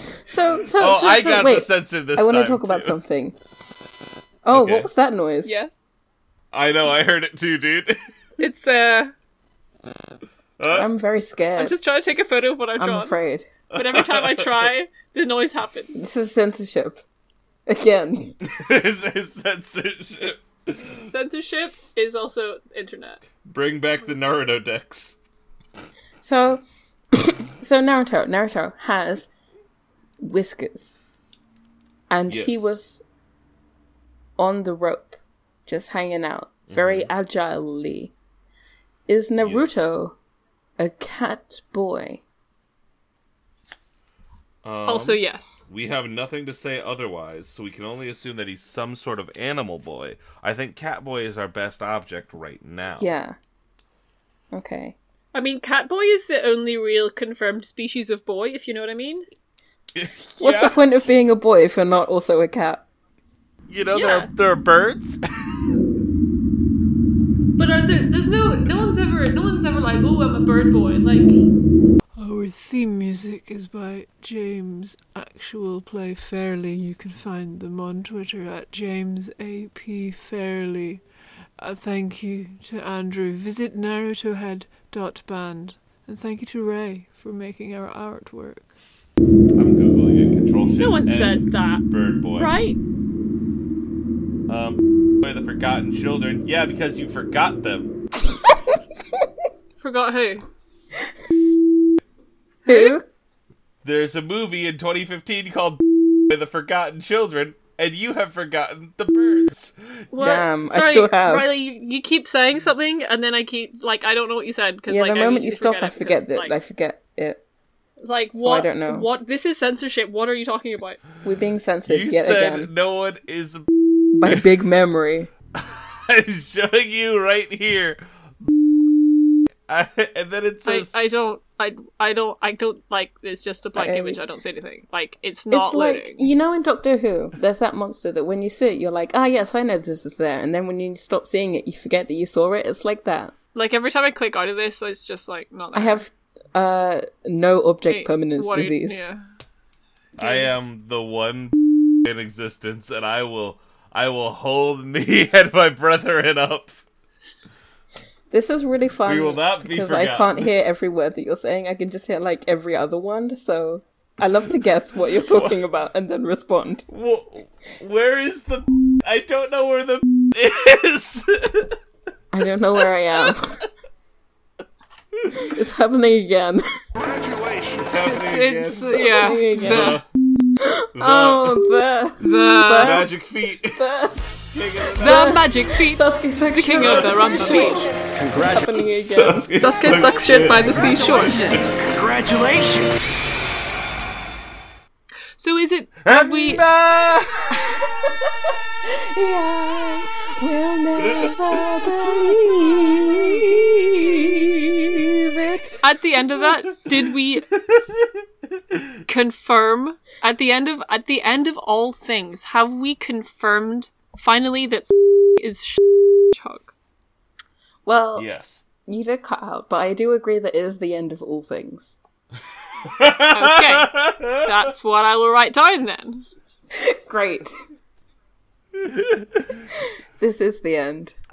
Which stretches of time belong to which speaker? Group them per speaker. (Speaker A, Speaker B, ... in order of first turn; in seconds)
Speaker A: 0.3-3.4, 4.4-5.6, 10.7-11.8, 12.8-13.5, 15.9-17.0, 17.7-18.4, 26.2-29.3, 30.2-30.9, 32.1-33.0, 34.4-38.1, 39.1-40.1, 40.8-42.2, 53.0-53.4, 54.5-55.0, 60.4-62.8, 102.7-103.0, 110.2-111.5, 114.9-117.4, 118.3-119.1, 121.2-122.7, 124.1-125.3, 133.7-134.2, 135.5-143.3, 145.7-149.0, 158.3-166.8, 172.3-173.6, 175.4-176.6, 178.8-180.0, 180.6-184.2, 184.9-191.7, 198.9-204.3, 204.9-205.8, 217.8-218.3, 218.8-221.9, 226.7-227.5, 230.2-231.1
Speaker B: 0.8-3.0, 4.5-4.9, 6.5-8.0, 10.6-10.9, 13.7-14.7, 18.5-21.1, 23.4-25.2, 32.3-32.7, 36.7-37.1, 39.4-39.9, 44.6-53.1, 59.9-60.8, 63.7-65.2, 89.5-92.5, 94.5-97.9, 103.8-110.0, 121.8-123.7, 125.6-128.0, 129.7-130.9, 150.2-156.8, 159.1-160.5, 165.3-165.6, 166.9-171.7, 177.8-179.0, 179.5-180.0, 180.9-181.6, 182.8-183.8, 184.5-185.4, 188.9-191.8, 196.0-197.6, 201.0-204.1, 207.7-208.1, 218.2-218.6, 222.8-224.5, 228.8-229.2
Speaker C: 5.4-5.8, 8.4-9.1, 11.6-13.2, 13.7-16.0, 21.1-23.2, 44.9-45.6, 55.3-59.2, 63.9-64.3, 67.5-71.3, 90.8-92.8, 99.8-100.4, 102.6-103.0, 110.1-116.5, 118.0-121.0, 130.7-136.3, 143.5-146.1, 147.8-149.2, 178.0-180.0, 182.2-183.1, 185.0-187.9, 189.6-191.7, 195.4-196.6, 205.8-207.5, 209.1-216.7, 223.3-226.2
Speaker D: 72.2-81.0, 81.6-88.7
Speaker E: 188.1-188.8, 191.7-192.9